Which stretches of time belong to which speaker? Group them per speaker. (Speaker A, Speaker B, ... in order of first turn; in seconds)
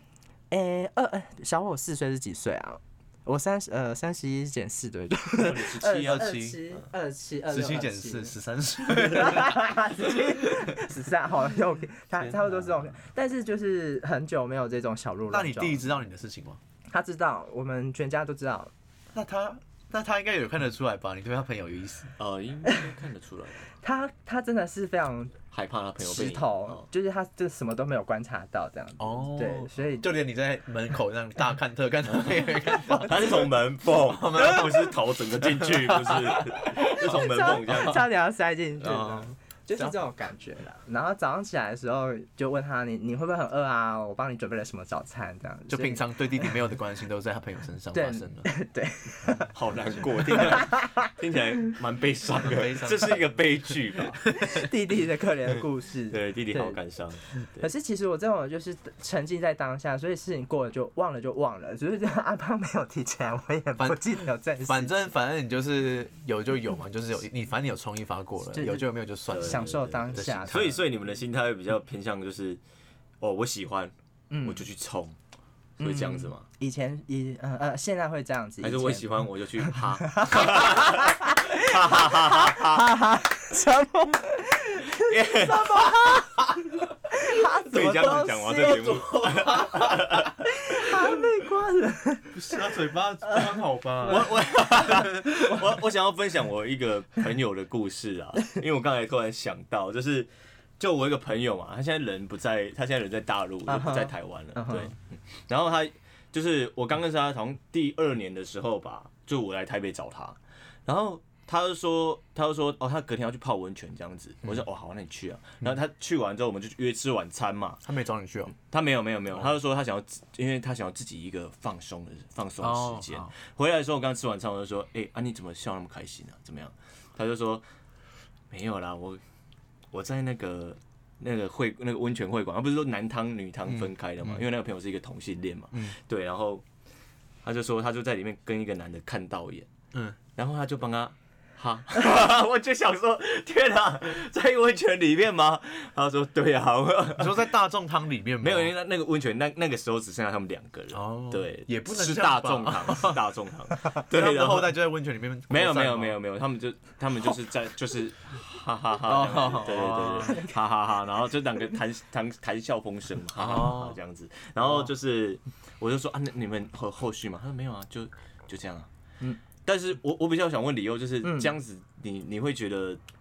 Speaker A: 0.5-8.3, 8.8-15.8, 16.9-18.7, 23.8-25.4, 26.0-30.1, 36.9-46.5, 47.9-49.5, 50.3-51.1, 54.4-56.8, 57.6-65.0, 68.5-70.7, 74.3-74.7, 75.8-86.4, 87.1-89.0, 90.4-92.4, 94.0-94.3, 103.7-104.9, 160.2-160.5, 171.2-171.5
Speaker B: 5.3-6.8, 22.2-23.7, 25.5-26.8, 32.2-38.1, 38.9-39.2, 49.5-54.2, 56.1-57.7, 69.3-72.6, 73.2-73.9, 74.4-75.2, 75.8-76.4, 78.6-82.9, 84.9-86.0, 87.7-90.4, 94.0-117.8, 118.5-127.6, 128.5-129.2, 129.9-136.6, 137.4-139.7, 140.3-147.5, 148.4-154.8, 155.5-168.9, 169.7-173.0
Speaker C: 6.0-6.6, 7.5-9.6, 15.3-16.6, 19.1-22.1, 29.0-38.0, 38.8-39.2, 45.7-48.5, 52.3-53.7, 54.2-54.7, 63.8-70.8, 87.8-90.3, 92.3-95.7, 117.8-118.5, 122.6-123.3, 133.7-134.4, 139.9-140.2, 147.1-148.7, 150.9-153.2, 154.1-156.2, 159.0-160.4, 163.3-164.0